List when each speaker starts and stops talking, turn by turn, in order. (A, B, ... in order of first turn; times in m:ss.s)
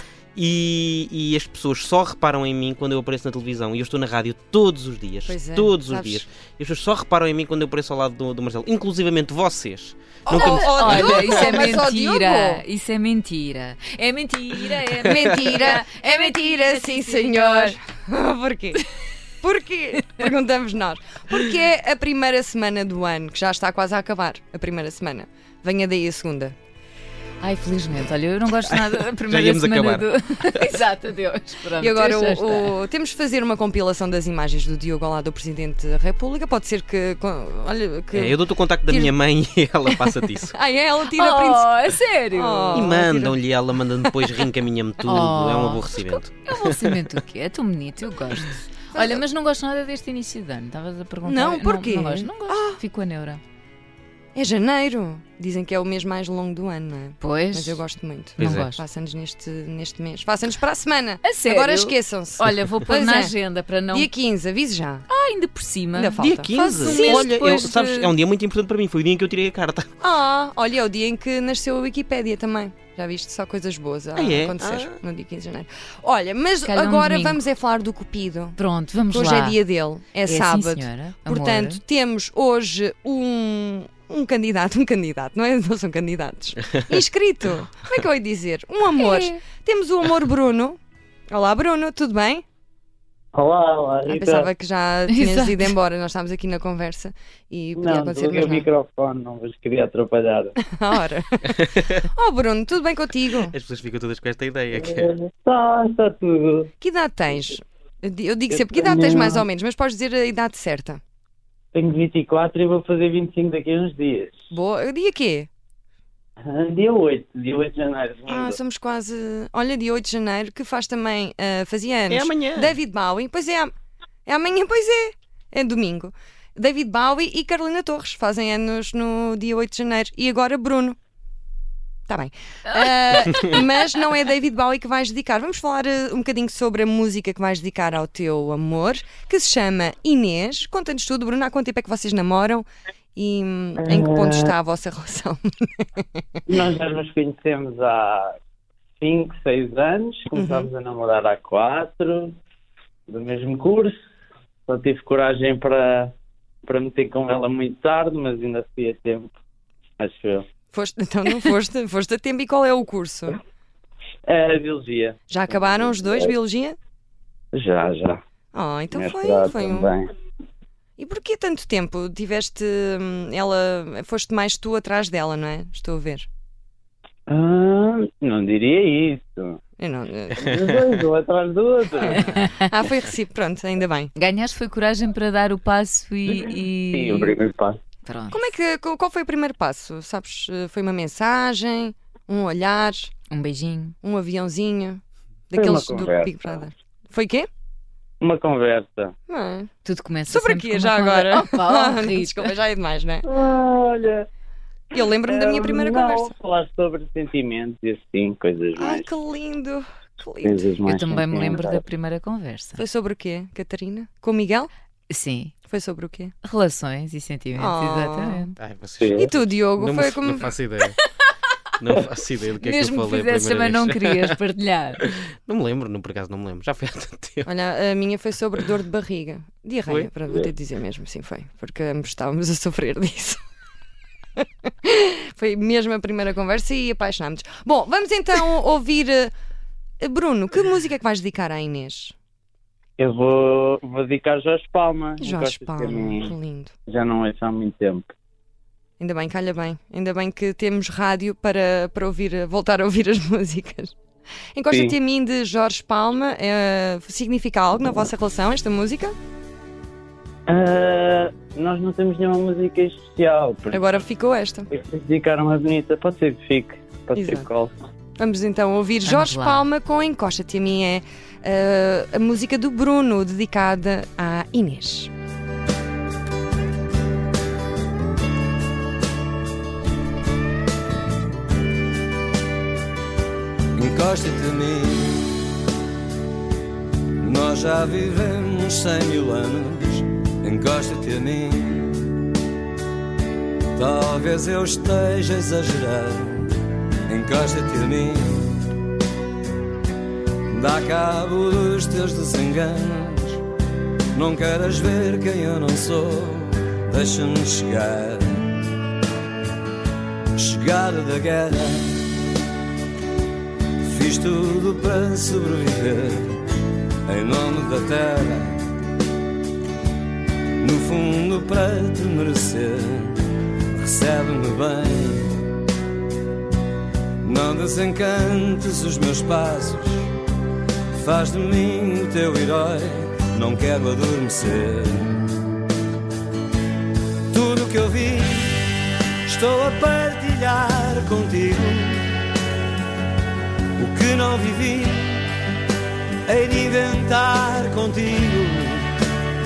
0:00.3-0:11.6 A
0:05.2-0:06.2 B
0:10.2-0:12.6 B
0:10.3-0:17.8 C
0:15.0-0:18.8 B
0:19.4-0:26.5 B
0:27.4-0:32.7 C
0:29.3-0:30.1 A
0:31.8-0:39.2 B
0:38.1-0:40.5 A
0:39.8-0:41.7 B
0:41.1-0:42.9 C
0:42.3-0:43.4 B
0:42.7-0:46.7 A
0:45.0-0:53.4 C
0:49.0-0:49.2 B
0:51.2-0:52.8 B
0:54.3-1:03.3 B
0:57.2-0:57.8 C
0:58.4-0:58.8 C
0:58.4-0:58.7 A
1:01.2-1:04.1 C
1:03.9-1:05.0 B
1:05.1-1:08.1 C
1:05.9-1:07.3 B
1:06.2-1:09.9 A
1:10.0-1:18.6 B
1:14.1-1:15.0 A
1:16.6-1:17.4 C
1:18.6-1:19.6 C
1:19.1-1:30.8 B
1:20.2-1:21.8 C
1:28.9-1:29.4 C
1:31.3-1:32.4 B
1:33.3-1:34.5 D
1:34.0-1:38.7 B
1:35.1-1:35.7 C
1:37.8-1:40.5 D
1:40.6-1:43.6 B
1:43.5-1:45.1 A
1:45.0-1:46.7 D
1:46.8-1:51.0 B
1:48.5-1:49.4 D
1:51.7-1:54.4 D
1:54.5-1:55.5 B
1:56.5-1:58.6 D
1:58.2-2:03.7 B
2:02.1-2:02.7 A
2:04.2-2:11.0 B
2:12.1-2:26.1 B
2:12.7-2:13.6 C
2:23.9-2:24.4 D
2:26.5-2:28.4 D
2:29.0-2:32.3 D
2:30.3-2:30.7 B
2:33.1-2:33.9 D
2:34.7-2:36.1 D
2:36.6-2:39.3 D
2:40.0-2:40.4 D
2:40.7-2:43.4 B
2:44.2-2:45.2 D
2:45.3-2:46.8 B
2:47.5-2:48.2 D
2:48.5-2:49.9 B
2:48.9-2:50.1 D
2:51.0-2:56.3 B
2:57.3-2:59.6 D
2:59.8-3:00.7 B
3:00.4-3:02.3 D
3:02.0-3:04.1 B
3:02.3-3:02.6 C
3:04.1-3:07.4 C
3:06.3-3:07.8 D
3:08.0-3:08.5 C
3:08.3-3:13.1 B
3:13.3-3:14.0 C
3:14.0-3:15.0 B
3:15.5-3:17.5 B
3:15.5-3:16.3 D
3:18.2-3:19.1 D
3:19.3-3:19.7 B
3:19.8-3:22.5 C
3:20.3-3:23.3 B
3:23.2-3:24.2 D
3:24.9-3:26.4 B
3:25.2-3:29.0 D
3:28.7-3:30.7 B
3:30.4-3:31.8 D
3:30.8-3:32.8 C
3:32.8-3:34.7 B
3:35.1-3:35.5 C
3:35.7-3:36.3 B
3:36.4-3:38.5 C
3:37.5-3:38.4 B
3:38.6-3:41.0 A
3:39.0-3:39.3 D
3:39.2-3:40.5 B
3:41.8-3:44.4 A
3:42.6-3:45.0 C
3:45.0-3:47.5 A
3:47.4-3:53.4 B
3:54.8-3:59.3 B
4:00.0-4:02.1 B
4:03.0-4:06.3 D
4:05.2-4:06.7 B
4:06.9-4:08.1 D
4:09.0-4:13.9 B
4:14.5-4:19.1 B
4:20.5-4:23.8 D
4:23.7-4:24.7 B
4:24.7-4:27.7 D
4:27.1-4:27.5 B
4:28.2-4:35.1 B
4:29.0-4:29.7 C
4:43.7-4:45.3 E
4:47.2-4:52.1 E
4:53.7-4:56.5 E
4:57.1-4:58.7 E
5:00.5-5:03.4 E
5:04.1-5:08.6 E
5:10.4-5:12.0 E
5:13.8-5:16.4 E
5:17.1-5:18.6 E
5:20.6-5:25.4 E
5:27.2-5:30.1 E
5:30.9-5:35.4 E
5:37.3-5:38.6 E
5:39.2-5:42.1 E
5:43.8-5:45.2 E
5:46.2-5:48.9 E